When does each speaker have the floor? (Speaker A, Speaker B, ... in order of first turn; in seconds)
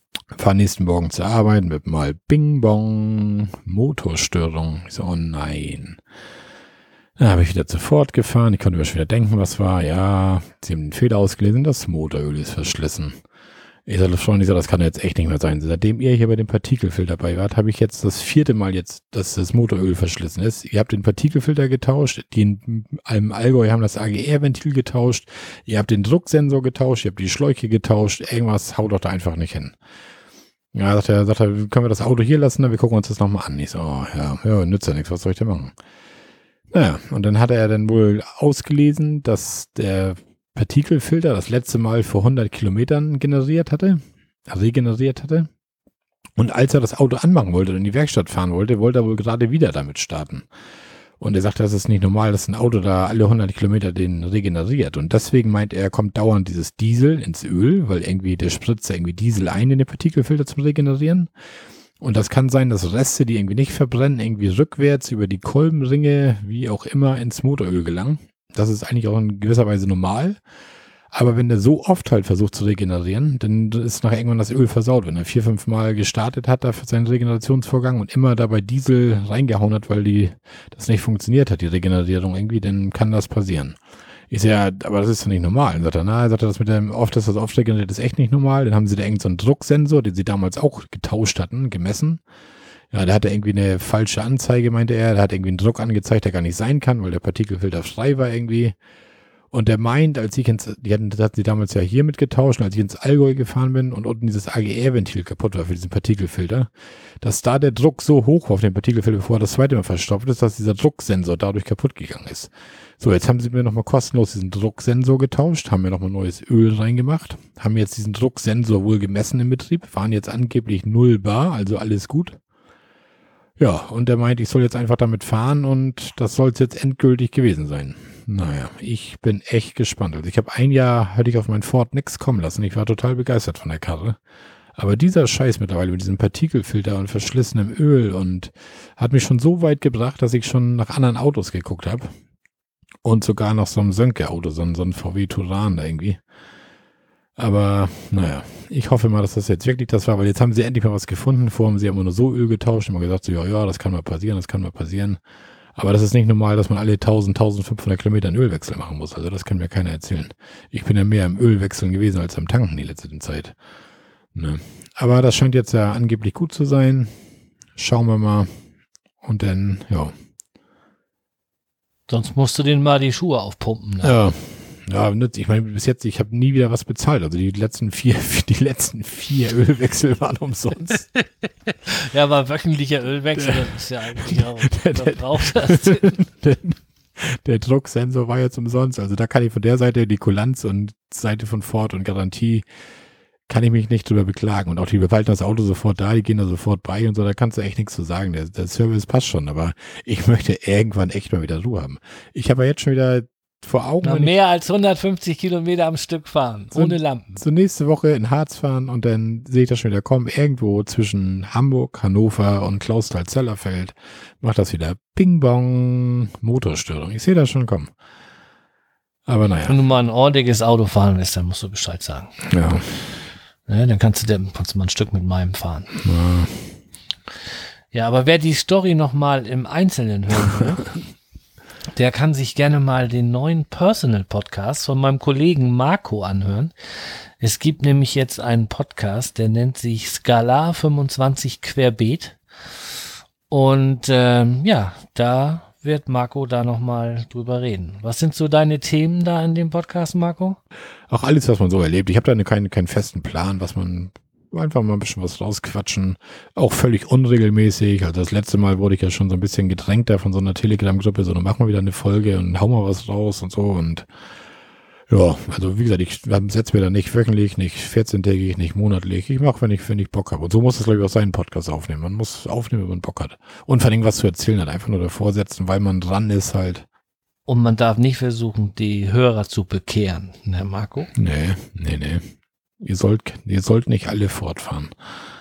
Speaker A: 0.3-6.0, 7.2-13.2, 13.8-29.8, 30.7-35.7, 36.7-45.5, 46.4-50.5, 51.2-61.3, 62.0-70.4, 71.1-83.8, 84.3-92.2, 92.9-98.8, 99.5-106.7, 107.2-122.4, 123.6-134.2, 134.8-142.1, 143.0-146.2, 147.4-155.2, 155.8-163.5, 164.3-167.2, 167.8-168.5, 169.2-170.1, 174.0-181.1, 184.2-192.7, 193.5-204.3, 206.7-217.9, 219.2-219.8, 222.4-222.9, 226.0-226.7, 251.1-264.1, 265.1-276.8, 281.1-284.9
Speaker B: 172.1-174.2, 181.8-186.2, 204.0-207.3, 219.7-222.3, 223.7-225.9, 227.9-230.9, 231.9-236.7, 237.4-242.4, 243.5-250.6, 277.5-281.1